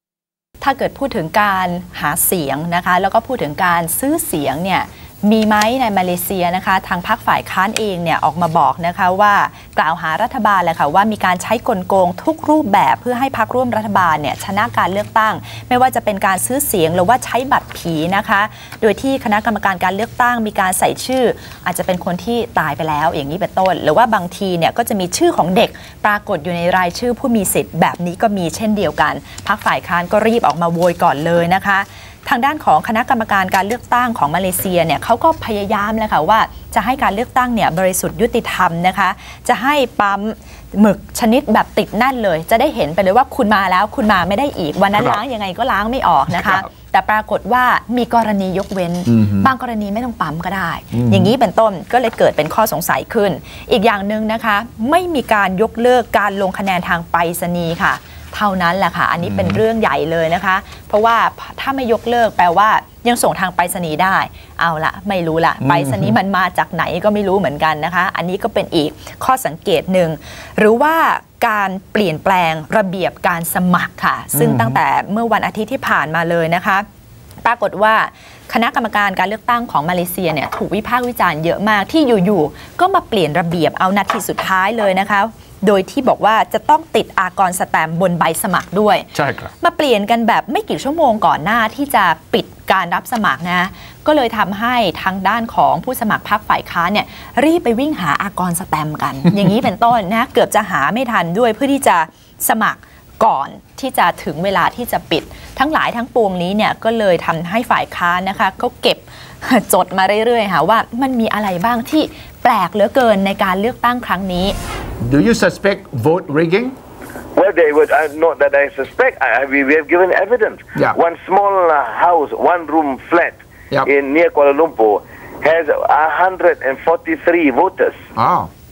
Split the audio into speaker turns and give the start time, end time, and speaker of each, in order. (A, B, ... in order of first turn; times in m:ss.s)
0:00.6-1:16.9 A
0:49.1-0:49.5 B
0:50.9-0:51.3 B
0:59.2-0:59.6 B
1:05.6-1:06.2 B
1:14.4-1:14.8 B
1:17.4-1:54.6 A
1:29.2-1:29.5 B
1:55.0-1:56.7 B
1:57.4-2:08.0 C
2:08.2-2:08.5 B